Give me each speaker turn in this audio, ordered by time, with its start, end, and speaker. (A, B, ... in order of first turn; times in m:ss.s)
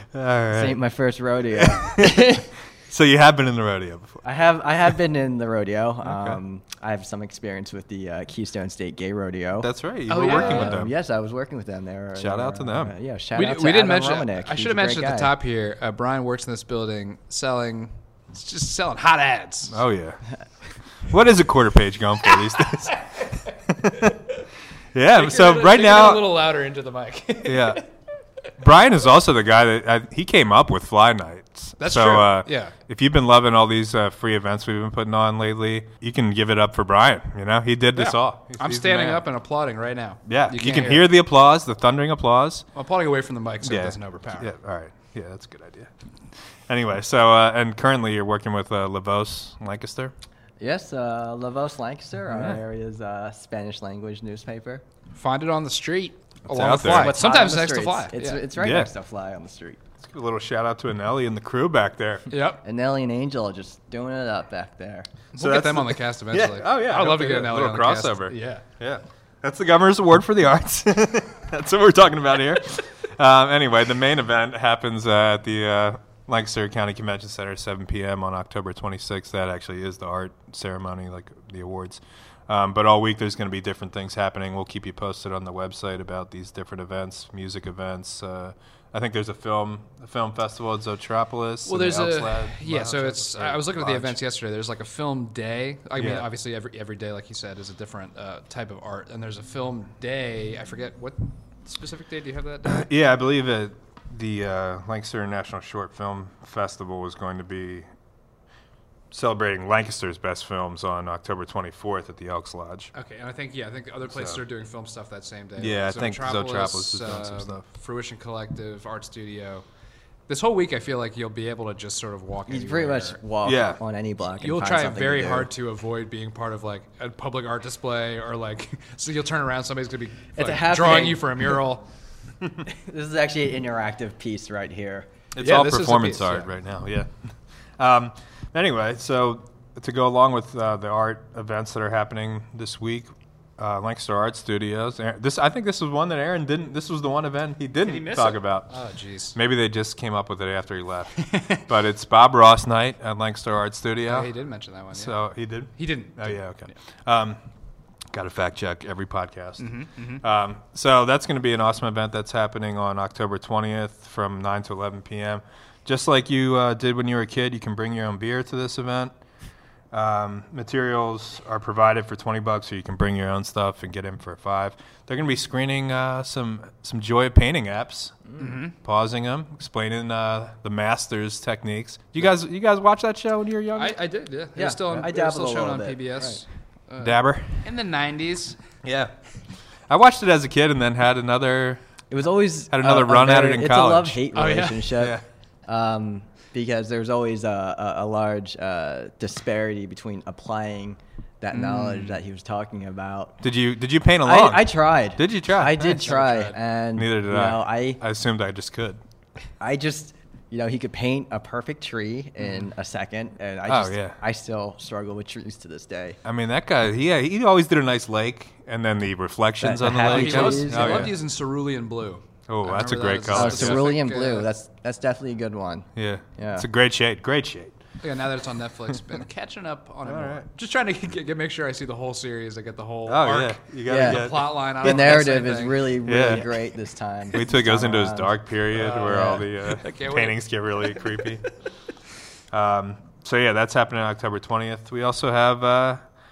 0:00.1-0:00.8 A
0:00.5-0:02.5 B
0:01.5-0:04.2 A
0:04.2-0:15.4 B
0:06.1-0:06.4 A
0:09.6-0:10.9 A
0:10.1-0:10.8 C
0:12.2-0:12.9 A
0:13.4-0:19.8 C
0:19.7-0:20.2 A
0:21.1-0:23.0 A
0:22.3-0:23.3 C
0:23.7-0:24.1 A
0:23.9-0:24.2 C
0:24.9-0:26.3 A
0:25.1-0:27.8 C
0:27.5-0:27.8 A
0:28.6-0:39.2 A
0:31.8-0:32.7 C
0:38.0-0:41.1 C
0:40.3-0:42.7 A
0:42.8-0:44.5 C
0:43.6-0:45.9 A
0:46.7-0:50.1 A
0:50.6-0:54.8 B
0:52.3-0:52.6 A
0:55.1-0:58.5 C
0:56.5-0:57.2 A
0:56.9-0:59.8 B
0:58.6-0:58.9 A
1:00.0-1:02.3 A
1:02.3-1:02.6 C
1:02.6-1:05.1 B
1:05.3-1:08.6 C
1:05.4-1:34.2 A
1:31.6-1:42.9 C
1:36.0-1:36.3 A
1:42.7-1:47.9 A
1:49.1-1:52.9 A
1:52.9-1:59.6 C
1:54.1-1:54.4 A
1:55.6-1:57.6 A
2:00.3-2:03.2 C
2:02.5-2:05.5 B
2:03.4-2:03.8 A
2:04.4-2:11.8 C
2:10.4-2:11.5 B
2:12.7-2:15.1 B
2:15.4-2:17.1 A
2:15.4-2:16.5 C
2:17.8-2:28.7 A
2:27.8-2:29.4 C
2:29.4-2:34.3 A
2:31.2-2:31.6 C
2:34.1-2:35.2 C
2:34.9-2:37.4 A
2:35.8-2:36.7 C
2:38.1-2:49.1 A
2:39.6-2:40.2 C
2:49.9-3:04.0 A
2:58.4-2:58.7 C
3:03.8-3:08.6 C
3:04.6-3:06.4 B
3:07.0-3:07.7 A
3:08.8-3:09.1 A
3:09.9-3:11.8 A
3:12.1-3:23.4 B
3:12.7-3:14.2 A
3:14.3-3:15.0 C
3:15.0-3:15.2 A
3:21.5-3:22.2 C
3:23.4-3:26.2 A
3:24.2-3:28.0 B
3:25.8-3:26.6 C
3:27.0-3:29.0 A
3:29.6-3:36.2 B
3:33.7-3:34.2 A
3:36.2-3:41.2 A
3:39.6-3:41.1 B
3:40.0-3:44.5 C
3:42.5-3:43.9 A
3:43.3-3:46.7 B
3:46.0-3:47.8 A
3:48.0-3:56.0 C
3:50.0-3:50.4 A
3:53.1-3:55.2 A
3:53.9-3:58.4 B
3:56.1-3:56.5 A
3:57.3-4:01.4 A
3:58.7-4:01.3 C
3:59.0-3:59.5 B
4:02.5-4:06.0 A